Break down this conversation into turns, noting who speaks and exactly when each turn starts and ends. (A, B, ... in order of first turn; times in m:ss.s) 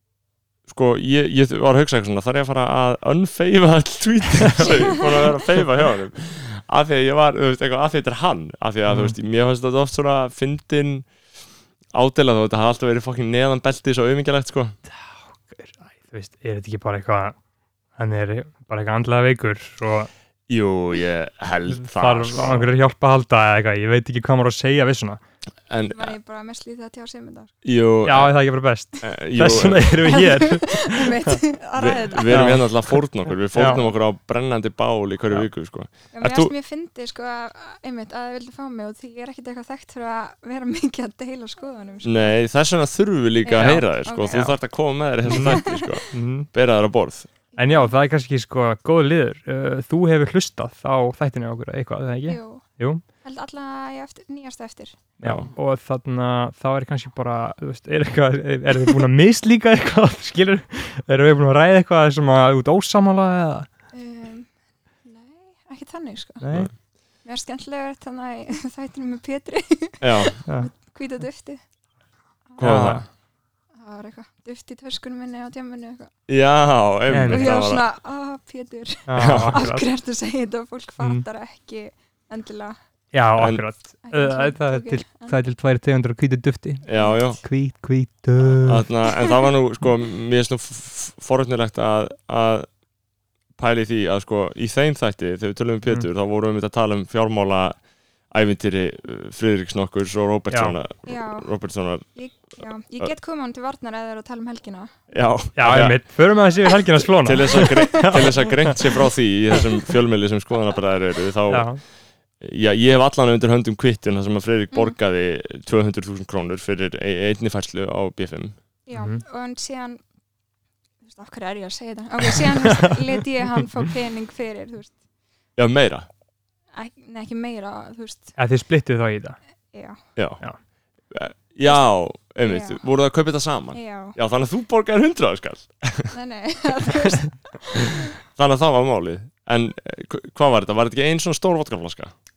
0:00.7-0:11.1 A
0:04.4-0:05.0 B
0:08.9-0:09.1 B
0:11.9-0:14.7 A
0:14.9-0:17.4 B
0:18.0-0:20.1 B
0:20.5-0:22.7 A
0:21.8-0:25.2 B
0:25.7-0:26.1 A
0:25.9-0:27.5 C
0:27.6-0:28.3 A
0:28.0-0:31.4 B
0:29.0-0:29.9 A
0:30.0-0:32.5 C
0:31.8-0:36.5 A
0:32.3-0:33.0 B
0:33.5-0:33.8 B
0:36.1-0:42.4 C
0:42.0-0:47.3 A
0:43.4-0:44.5 C
0:45.2-0:46.5 B
0:45.3-0:46.0 C
0:47.5-0:47.9 C
0:47.6-0:53.0 B
0:52.3-0:52.6 C
0:53.2-0:55.0 C
0:55.2-1:03.7 B
0:55.2-0:55.5 A
1:03.9-1:04.5 C
1:05.0-1:06.4 C
1:06.4-1:06.7 B
1:07.2-1:11.6 C
1:10.0-1:10.4 A
1:12.5-1:13.0 C
1:12.6-1:13.0 B
1:12.6-1:13.1 A
1:13.7-1:16.1 C
1:16.3-1:17.8 A
1:17.1-1:17.5 B
1:17.3-1:22.8 C
1:19.1-1:19.8 B
1:19.2-1:19.7 A
1:23.1-1:28.9 B
1:23.4-1:23.6 A
1:24.0-1:25.4 C
1:26.8-1:27.4 A
1:26.9-1:27.3 C
1:28.4-1:32.7 A
1:33.6-1:37.8 A
1:38.3-1:42.1 A
1:40.5-1:40.8 B
1:41.0-1:41.5 C
1:42.1-1:44.9 C
1:45.1-1:46.0 A
1:45.6-1:48.8 B
1:47.2-1:51.7 A
1:47.6-1:48.2 C
1:51.5-1:51.8 B
1:52.4-1:58.6 A
1:58.8-2:00.0 C
1:58.9-1:59.2 B
2:01.0-2:05.0 C
2:02.3-2:03.0 B
2:05.6-2:06.1 A
2:06.7-2:08.4 C
2:08.4-2:09.4 B
2:09.7-2:10.0 C
2:10.2-2:10.4 A
2:11.1-2:16.1 A
2:12.4-2:12.8 C
2:13.7-2:14.2 C
2:16.1-2:18.1 C
2:17.8-2:22.1 A